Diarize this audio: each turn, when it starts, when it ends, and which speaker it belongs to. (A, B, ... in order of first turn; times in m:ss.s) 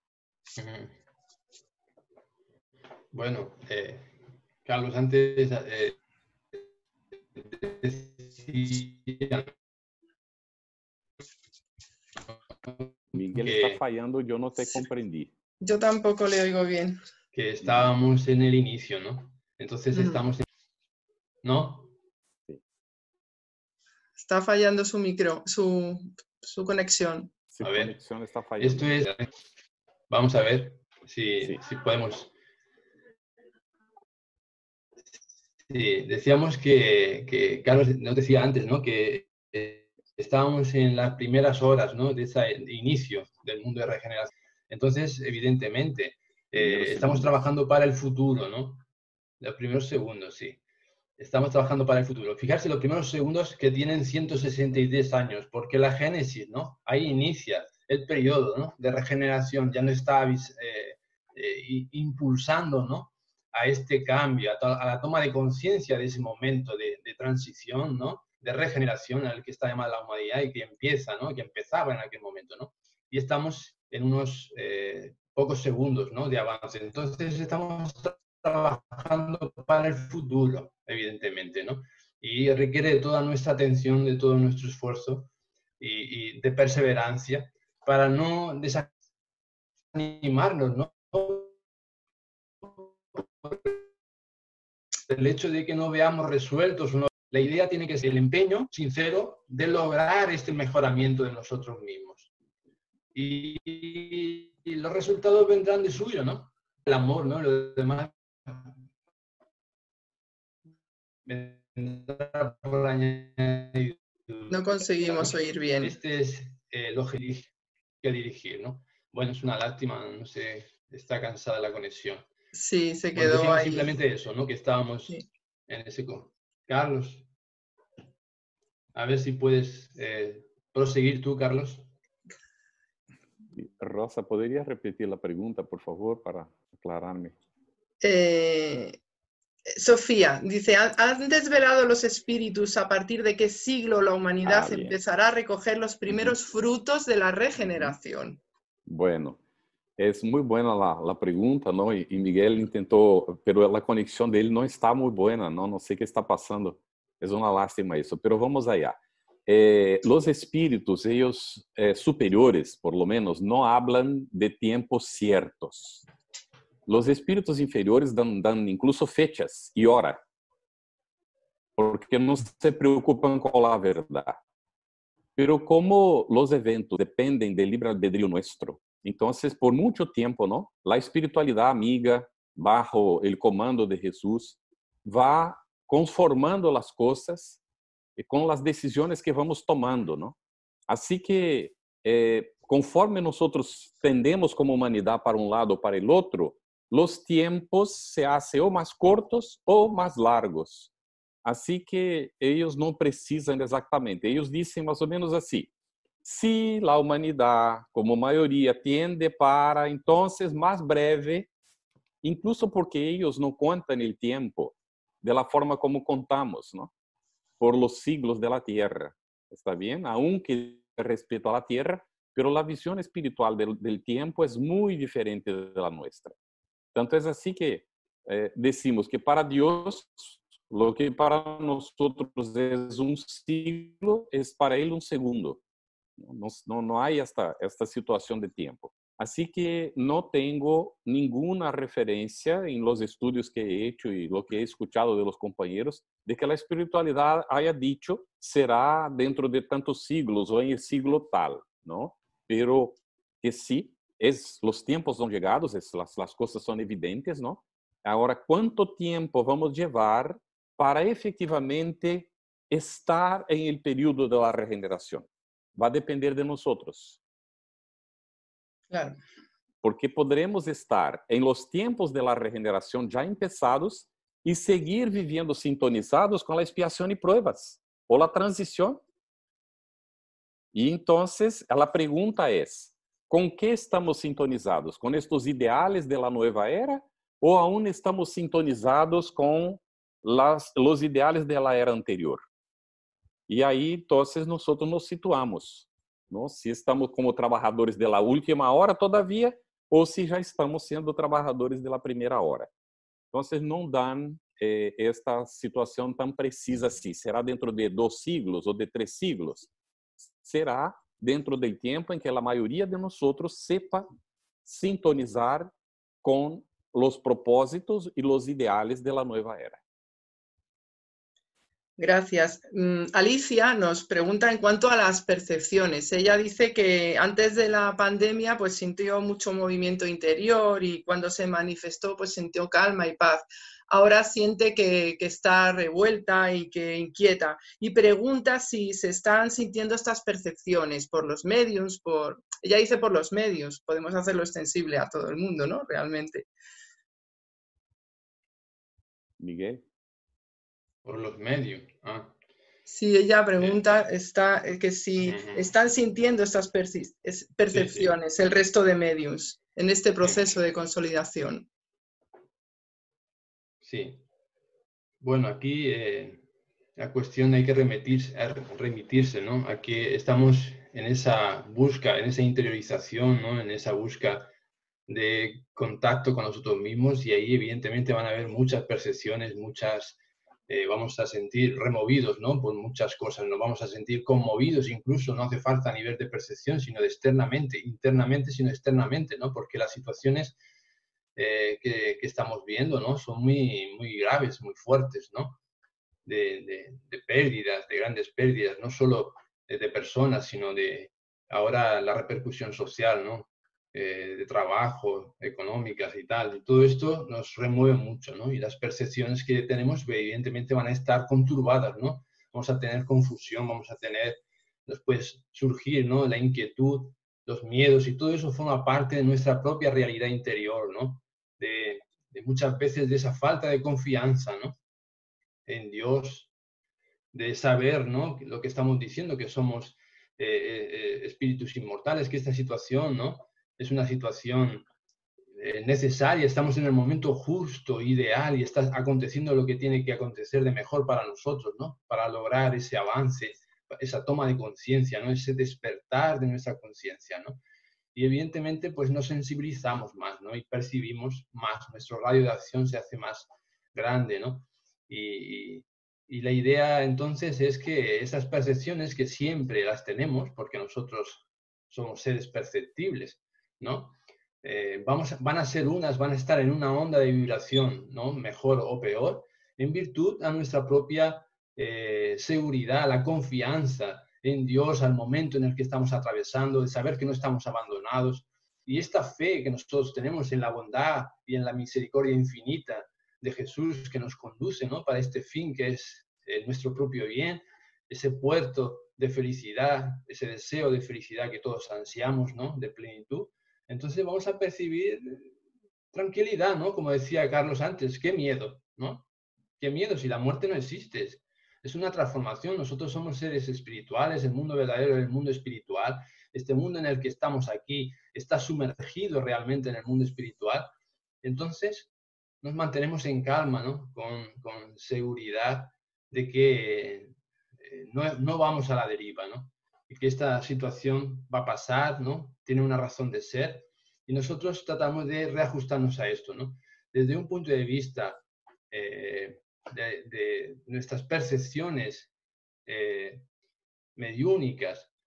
0:00.6-0:01.0 A
0:03.1-0:04.1 A
0:04.6-0:06.0 A
0:07.4-0:09.5 A
0:12.7-0:13.8 A
0:13.1-0:15.3 B
0:15.6-0:17.0 C
0:17.3-0:20.4 A
0:17.6-0:17.9 B
0:19.9-0:20.2 C
0:21.4-0:21.9 A
0:24.2-0:27.3 C
0:27.5-0:29.0 B
0:27.6-0:28.0 A
0:28.6-0:29.3 A
0:30.1-0:32.3 A
0:35.7-0:48.8 A
0:46.6-0:47.4 B
0:49.4-0:50.6 A
0:51.2-1:28.9 A
1:29.9-1:31.6 A
1:32.6-1:33.8 A
1:35.1-1:42.3 A
1:43.1-1:48.7 A
1:51.3-1:57.5 A
1:54.5-1:56.0 C
1:58.0-2:02.3 A
2:02.5-2:03.9 C
2:03.2-2:07.3 A
2:09.0-2:11.9 A
2:13.5-2:17.4 B
2:18.0-2:19.0 C
2:19.7-2:28.4 C
2:24.4-2:25.0 B
2:26.1-2:26.4 B
2:28.9-2:29.4 B
2:30.0-2:46.0 B
2:46.9-2:50.2 B
2:51.8-2:54.4 B
2:55.4-3:07.6 B
3:08.2-3:10.4 B
3:10.9-3:20.9 B
3:21.4-3:25.7 B
3:26.2-3:31.5 B
3:32.2-3:36.9 B
3:37.6-3:46.4 B
3:47.0-3:55.6 B
3:56.2-4:27.2 B
4:28.9-4:29.2 C
4:29.8-4:39.0 B
4:40.7-4:52.4 B
4:53.5-5:02.7 B
5:03.3-5:09.7 B
5:10.2-5:14.1 B
5:14.6-5:19.8 B
5:22.0-5:46.5 C
5:49.4-5:49.8 B
5:51.0-5:52.4 A
5:52.9-6:01.7 C
5:53.6-5:54.0 A
5:55.2-5:55.7 A
5:57.7-5:58.2 A
6:03.8-6:04.2 A
6:05.2-6:06.4 A
6:07.0-6:14.5 A
6:15.1-6:20.2 A
6:20.7-6:30.6 A
6:31.4-6:35.6 A
6:36.3-7:04.8 A
7:05.7-7:06.5 A
7:07.3-7:14.9 A
7:15.6-7:27.6 A
7:28.2-8:15.5 A
8:16.1-8:19.3 A
8:19.8-8:30.9 A
8:31.4-8:32.1 A
8:32.6-8:52.3 A
8:52.9-8:53.5 A
8:54.2-8:55.1 A